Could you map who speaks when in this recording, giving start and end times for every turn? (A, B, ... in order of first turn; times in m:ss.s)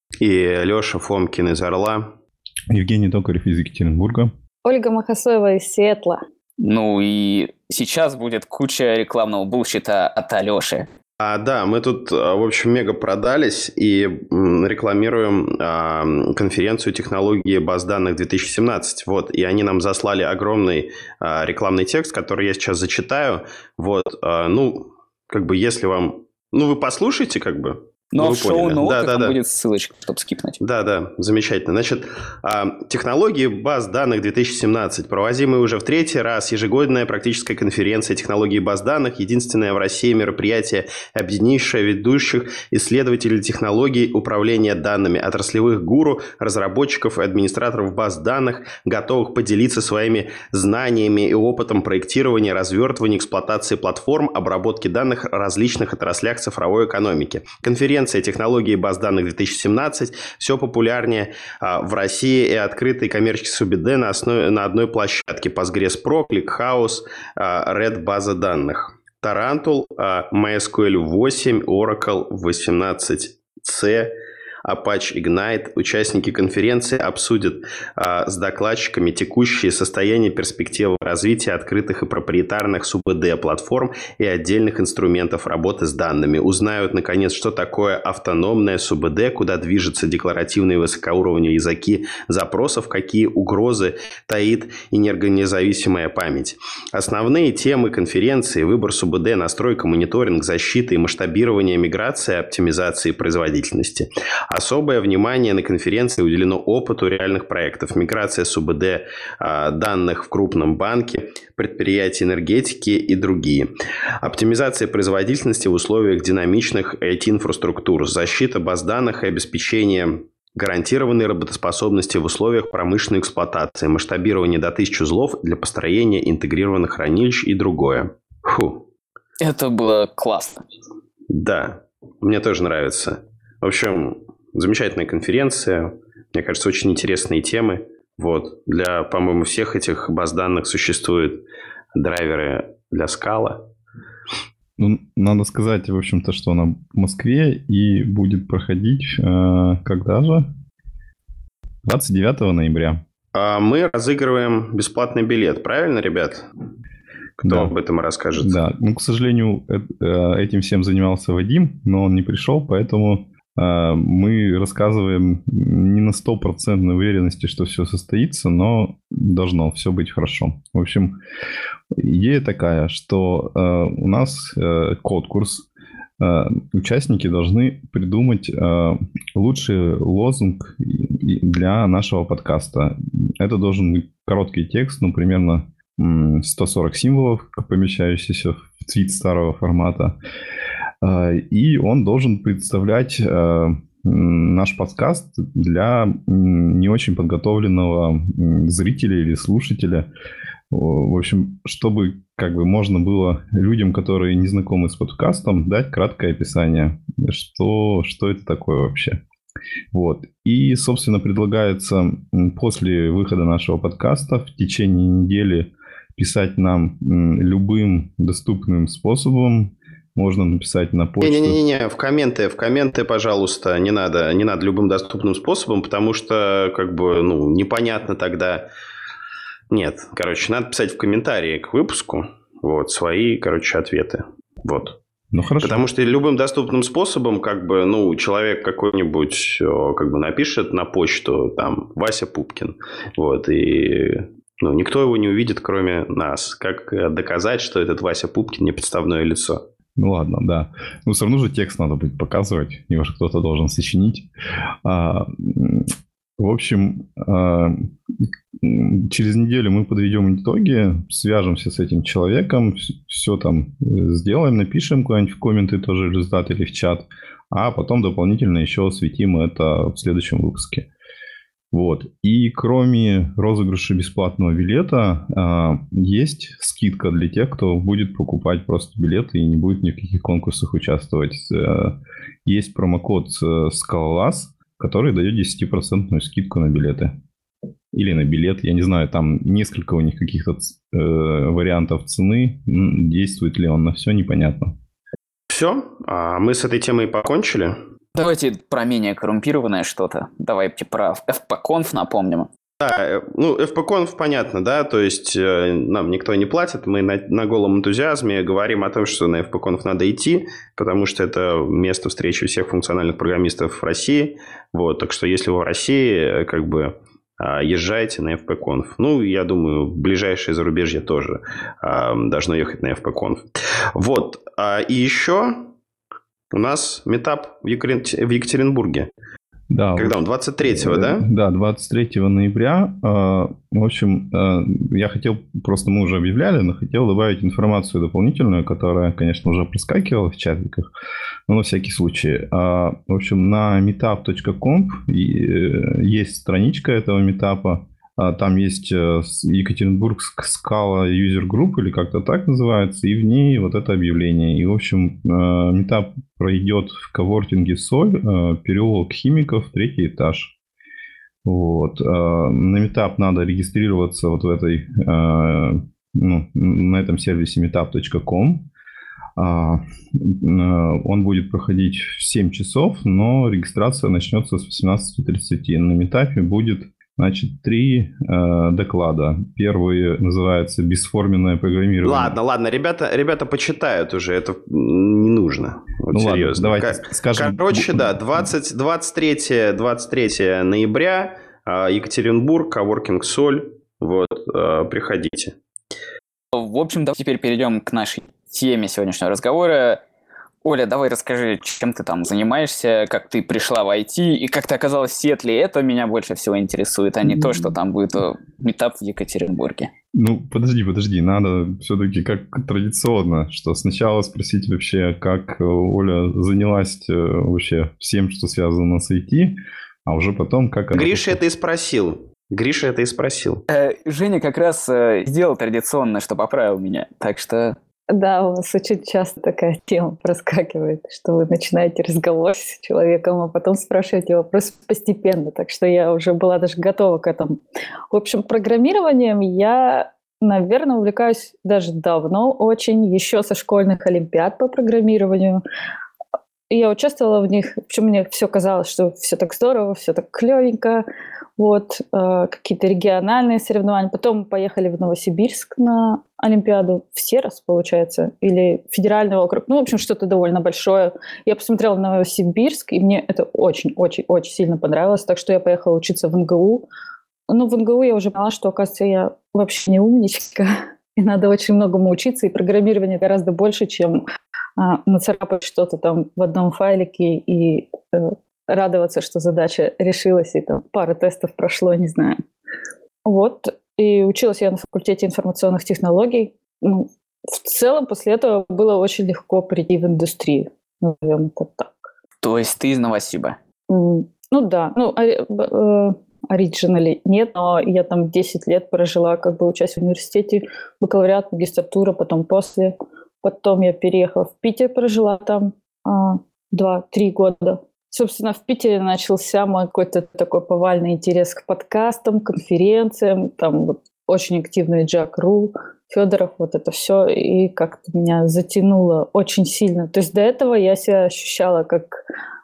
0:00.2-0:02.1 A
0:02.7-0:04.3 B
0:04.6-0:06.2 C
0:06.6-0:10.9 D
0:11.2-0:29.4 A
0:28.1-0:30.6 D
0:30.6-1:14.1 A
1:14.6-1:53.7 A
1:54.2-2:08.8 A
2:09.4-2:10.6 D
2:11.3-2:21.4 A
2:22.0-2:23.7 A
2:24.8-2:30.5 B
2:31.8-2:33.0 B
2:33.3-2:36.4 A
2:37.4-2:38.6 A
2:37.4-2:37.7 B
2:38.4-2:51.2 B
2:52.0-2:55.7 B
2:56.2-3:10.2 B
3:11.0-3:20.1 B
3:20.7-3:29.2 B
3:29.9-3:41.6 B
3:41.2-3:48.7 A
3:49.7-3:55.0 A
3:55.3-3:55.9 B
3:55.6-4:09.6 A
4:10.0-4:14.3 B
4:14.8-4:17.9 B
4:18.6-4:30.9 B
4:31.7-4:47.1 B
4:47.9-4:54.7 B
4:55.5-4:57.8 A
4:58.2-5:02.5 D
5:02.8-5:25.7 A
5:26.5-5:29.1 A
5:29.7-5:40.9 B
5:30.0-5:31.3 A
5:41.5-6:00.5 B
6:01.4-6:08.7 B
6:09.4-6:22.4 B
6:22.0-6:35.6 A
6:26.1-6:28.5 B
6:36.5-6:40.0 D
6:40.6-6:49.9 D
6:50.1-7:01.4 B
7:00.9-7:03.6 A
7:03.7-7:07.8 D
7:08.1-7:17.6 C
7:18.1-7:25.6 C
7:26.7-7:31.0 C
7:31.6-7:46.9 C
7:47.5-7:54.2 C
7:54.8-8:02.4 C
8:03.2-8:12.1 C
8:12.4-8:13.6 D
8:13.9-8:42.2 C